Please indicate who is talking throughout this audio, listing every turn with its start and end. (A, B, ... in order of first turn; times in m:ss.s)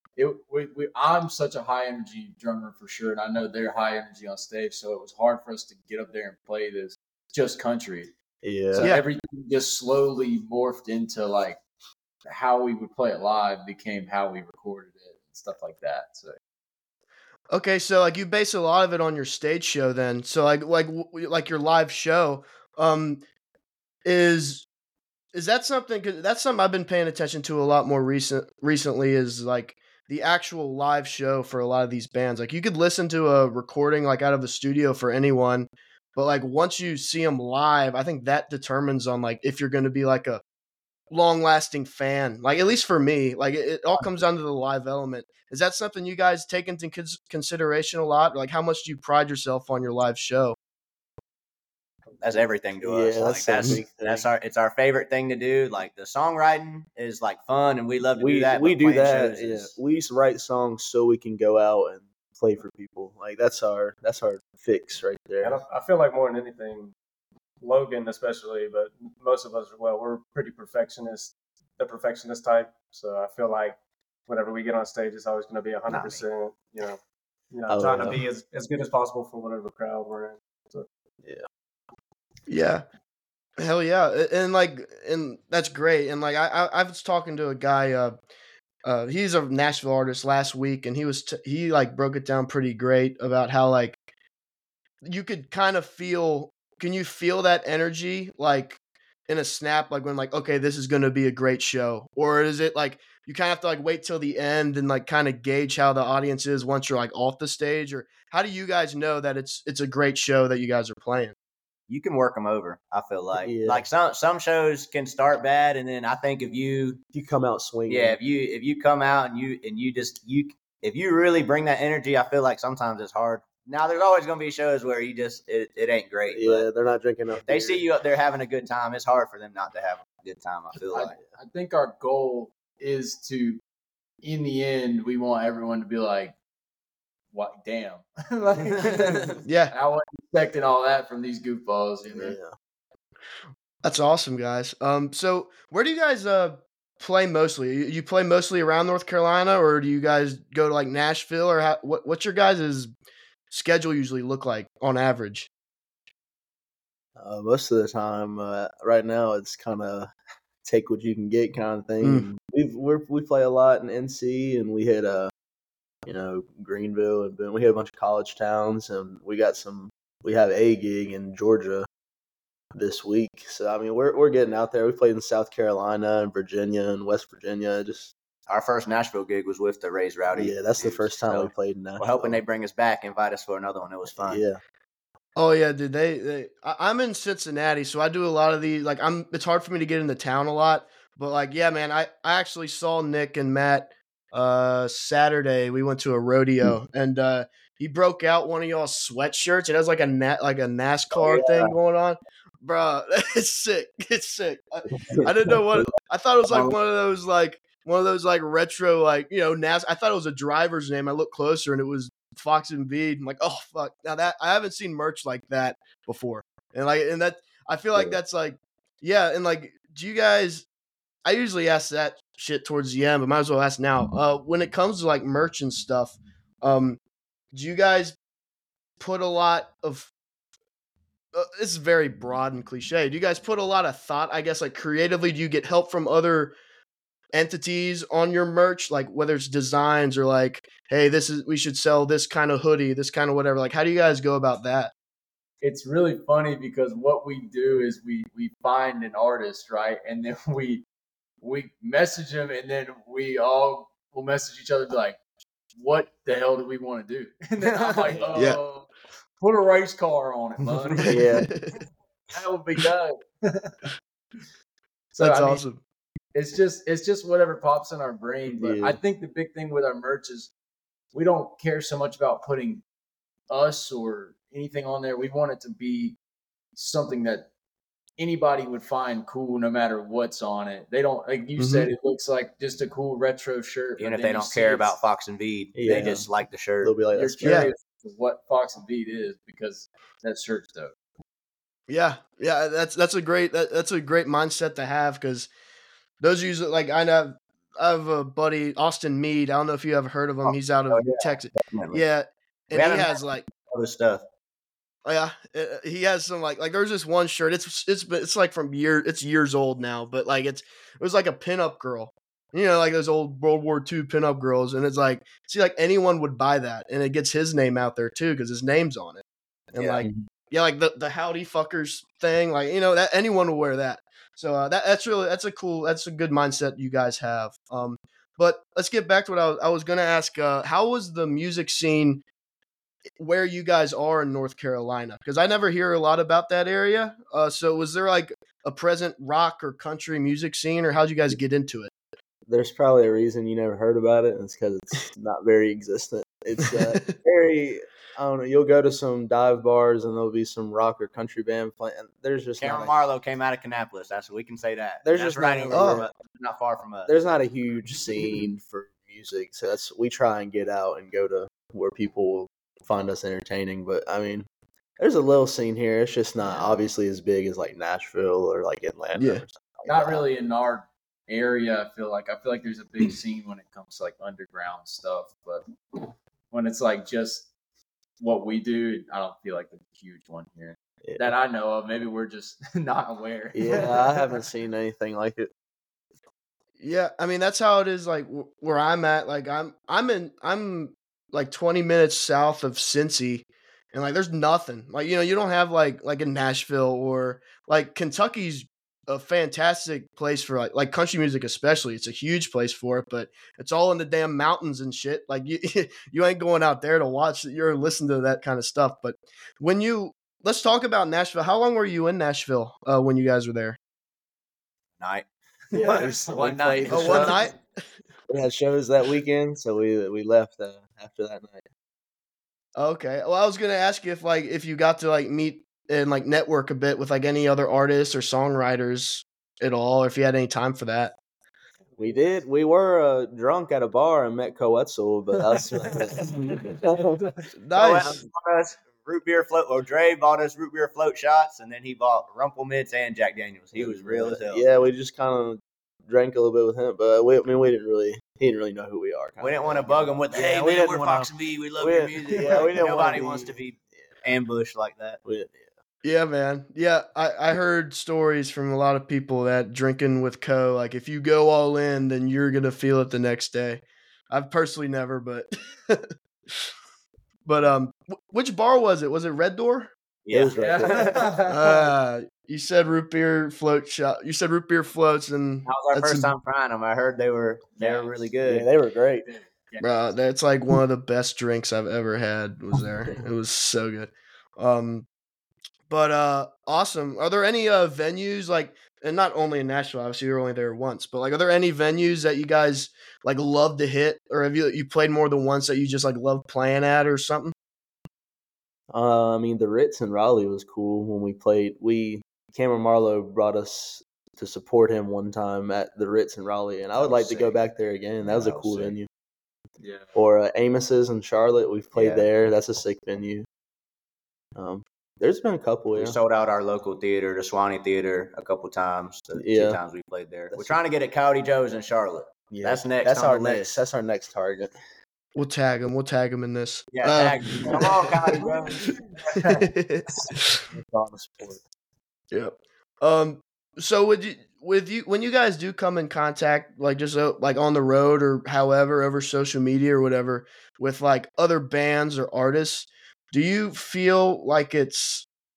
0:00.2-0:08.1 A
0:08.4-0:08.9 B
0:08.7-0:11.6 A
0:08.8-0:09.0 C
0:12.2-0:16.4 A
0:17.5-0:23.2 C
0:24.0-0:24.6 C
0:25.3-0:40.4 C
0:41.1-0:50.6 C
0:52.2-0:59.7 D
0:52.8-0:54.3 B
0:58.2-1:05.6 B
1:05.4-1:06.9 E
1:07.6-1:17.0 E
1:15.9-1:16.2 D
1:17.5-1:20.9 E
1:17.7-1:18.2 B
1:22.5-1:22.8 C
1:23.6-1:28.2 C
1:28.8-1:34.0 C
1:35.0-1:51.4 C
1:51.9-1:57.0 D
1:53.4-1:53.8 B
1:57.1-1:58.2 B
1:57.9-2:06.7 D
2:06.3-2:07.8 B
2:07.5-2:11.1 D
2:10.9-2:13.6 A
2:14.2-2:16.4 A
2:17.3-2:22.4 A
2:19.4-2:19.7 C
2:22.1-2:22.6 B
2:23.8-2:32.9 C
2:33.5-2:35.5 C
2:37.2-2:40.1 B
2:40.6-2:45.3 B
2:42.0-2:42.3 C
2:46.1-2:51.9 B
2:52.7-2:58.1 B
2:58.5-3:04.4 D
3:00.3-3:02.4 B
3:04.1-3:04.6 B
3:05.4-3:40.6 C
3:21.1-3:21.7 B
3:25.0-3:25.9 B
3:26.5-3:26.8 D
3:41.2-3:47.0 C
3:47.5-3:48.2 C
3:49.0-3:50.1 C
3:51.3-3:56.5 C
3:57.3-4:04.9 C
4:05.6-4:10.8 A
4:11.4-4:15.2 A
4:15.8-4:21.2 A
4:17.6-4:18.3 D
4:18.4-4:18.6 C
4:21.1-4:21.5 B
4:21.1-4:21.8 C
4:22.3-4:23.8 A
4:25.1-4:25.6 A
4:25.2-4:25.8 C
4:26.3-4:30.5 A
4:28.5-4:29.0 B
4:31.1-4:32.8 A
4:33.5-4:36.2 A
4:36.8-4:37.5 A
4:38.2-4:45.0 A
4:41.6-4:41.9 C
4:44.0-4:47.0 D
4:45.8-4:46.3 B
4:46.8-4:47.7 B
4:47.1-4:51.0 A
4:47.4-4:47.7 C
4:51.9-4:55.5 C
4:56.2-5:03.4 C
5:00.4-5:02.0 D
5:02.7-5:04.2 D
5:05.0-5:32.2 C
5:19.8-5:20.0 D
5:20.0-5:20.2 B
5:33.2-5:41.9 C
5:42.5-5:53.0 B
5:46.7-5:47.1 C
5:52.6-5:57.1 D
5:55.0-5:56.1 B
5:55.7-5:56.0 C
5:57.0-6:04.5 B
6:05.0-6:10.2 B
6:09.2-6:09.4 C
6:09.8-6:15.6 A
6:16.5-6:17.5 A
6:18.2-6:24.4 A
6:21.0-6:21.3 B
6:23.5-6:25.5 B
6:26.8-6:53.8 C
6:55.0-6:57.5 D
6:55.7-6:57.4 B
6:55.8-6:57.3 A
6:56.9-6:57.6 C
6:58.3-7:01.6 B
7:02.8-7:11.1 C
7:12.0-7:17.2 B
7:17.6-7:18.2 C
7:17.8-7:24.6 D
7:23.7-7:33.8 B
7:29.4-7:35.2 D
7:35.2-7:35.7 B
7:36.0-7:46.7 C
7:47.4-7:49.9 C
7:50.2-7:51.3 D
7:50.3-7:51.2 B
7:50.6-7:51.9 A
7:51.5-7:56.3 C
7:55.6-7:58.7 D
7:57.8-7:58.2 A
7:58.4-7:59.3 B
7:59.2-7:59.9 A
7:59.8-8:05.0 C
8:05.9-8:17.5 C
8:18.9-8:29.1 B
8:27.0-8:27.5 D
8:28.2-8:29.0 D
8:29.8-8:30.1 A
8:30.1-8:33.5 B
8:31.9-8:32.3 D
8:34.6-8:36.1 B
8:36.0-8:43.8 D
8:39.4-8:39.8 B
8:40.5-8:40.8 B
8:42.5-8:44.7 B
8:45.4-8:48.9 C
8:46.9-8:49.7 D
8:49.4-8:50.6 C
8:50.7-8:51.6 B
8:52.3-9:05.2 C